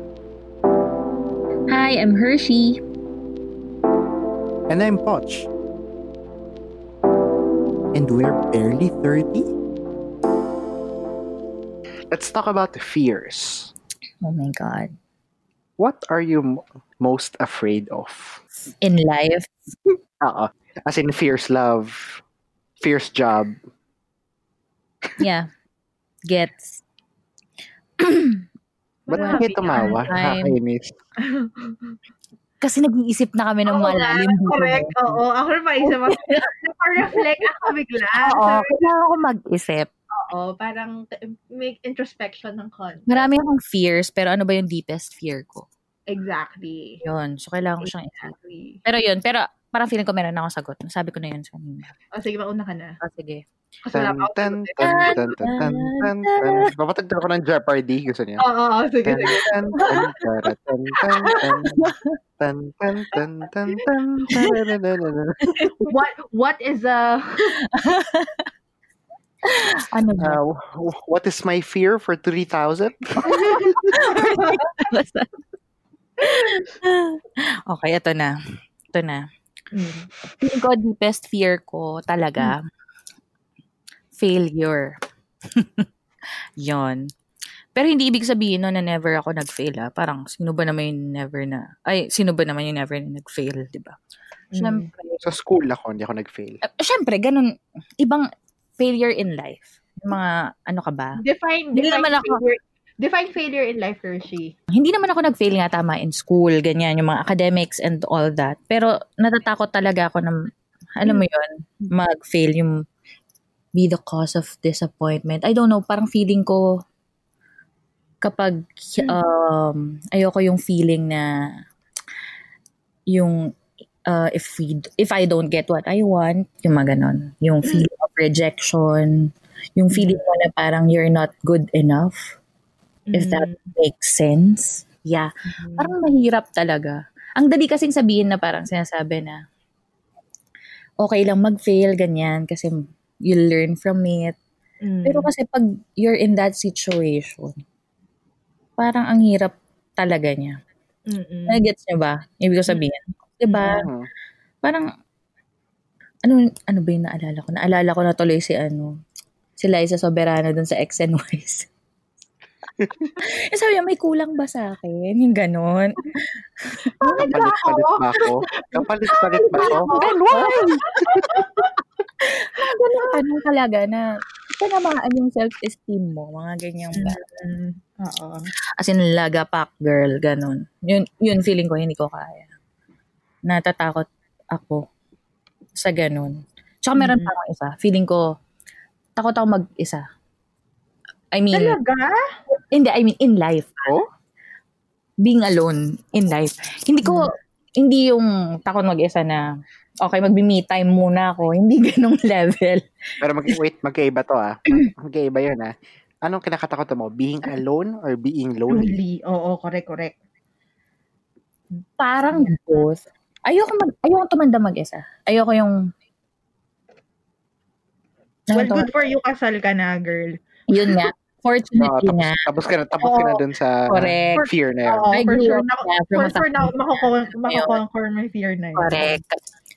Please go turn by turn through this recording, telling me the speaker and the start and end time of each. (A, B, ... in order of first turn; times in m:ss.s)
0:01.7-0:02.8 A
0:04.7-0:05.5 B
0:07.9-0:09.5 B
0:12.1-0:13.7 B
0:14.2-0:14.9 A
0:15.8-0:18.4 B
0:18.8-0:19.7 A
0:20.2-0:22.2 B
0:22.8-0:23.6 B
0:25.2-0:25.5 A
0:26.3-0:26.8 A
0:28.0-0:28.4 A
0:29.1-0:30.0 C
0:29.1-0:30.9 B
0:29.2-0:30.6 A
0:31.2-0:32.0 C
0:32.6-0:35.2 A
0:33.7-0:38.8 C
0:35.8-0:36.5 A
0:38.2-0:39.9 A
0:40.1-0:43.3 C
0:43.1-0:45.7 A
0:46.1-0:47.0 C
0:47.0-0:48.3 A
0:47.8-0:48.8 C
0:48.8-0:51.9 A
0:52.1-0:53.0 C
0:53.0-0:53.4 A
0:53.8-0:55.2 C
0:53.9-0:58.4 B
0:54.8-0:56.7 A
0:58.4-1:00.0 C
0:59.0-1:05.5 B
1:01.0-1:01.4 C
1:01.4-1:02.1 A
1:04.3-1:04.6 A
1:05.4-1:05.9 A
1:05.8-1:07.6 C
1:07.6-1:08.5 A
1:09.4-1:10.4 A
1:10.2-1:14.0 B
1:13.2-1:14.9 C
1:13.4-1:15.3 A
1:16.2-1:18.4 A
1:18.9-1:19.2 A
1:19.7-1:20.1 C
1:20.4-1:22.6 A
1:24.2-1:25.0 A
1:25.5-1:25.8 A
1:26.6-1:27.1 A
1:27.8-1:34.0 A
1:34.5-1:34.9 C
1:34.6-1:35.2 A
1:35.2-1:36.6 B
1:36.6-1:37.4 A
1:38.0-1:38.3 A
1:38.8-1:41.2 A
1:41.2-1:44.5 C
1:41.8-1:42.4 A
1:44.7-1:50.5 A
1:51.0-1:52.8 A
1:53.7-1:56.6 A
1:58.2-2:01.3 A
2:03.1-2:03.5 A
2:04.1-2:12.4 A
2:09.9-2:10.2 C
2:13.1-2:13.7 C
2:13.1-2:19.4 A
2:15.5-2:15.9 C
2:21.0-2:24.4 A
2:24.8-2:25.3 C
2:25.0-2:27.6 A
2:28.8-2:30.5 A
2:31.1-2:31.6 C
2:31.5-2:33.9 A
2:33.6-2:34.1 B
2:36.2-2:38.9 A
2:39.6-2:41.7 A
2:42.8-2:43.1 B
2:43.2-2:47.3 A
2:47.0-2:50.1 C
2:47.2-2:51.4 B
2:49.6-2:50.8 A
2:50.9-2:51.7 C
2:52.2-2:54.0 A
2:52.6-2:53.2 C
2:54.6-2:57.2 A
2:56.9-2:58.5 C
2:58.8-3:02.5 A
3:03.4-3:04.8 A
3:05.8-3:08.2 A
3:07.0-3:07.3 C
3:09.2-3:10.0 A
3:11.3-3:11.8 A
3:11.5-3:12.2 C
3:12.7-3:13.9 A
3:15.2-3:19.4 A
3:17.0-3:17.3 C
3:20.0-3:22.8 A
3:23.2-3:29.0 B
3:28.7-3:30.2 C
3:32.0-3:35.8 A
3:38.5-3:38.9 A
3:38.5-3:40.4 C
3:40.7-3:42.4 A
3:41.8-3:45.1 B
3:43.0-3:43.4 C
3:43.9-3:44.4 A
3:44.4-3:49.2 C
3:45.1-3:47.8 A
3:48.8-3:49.4 A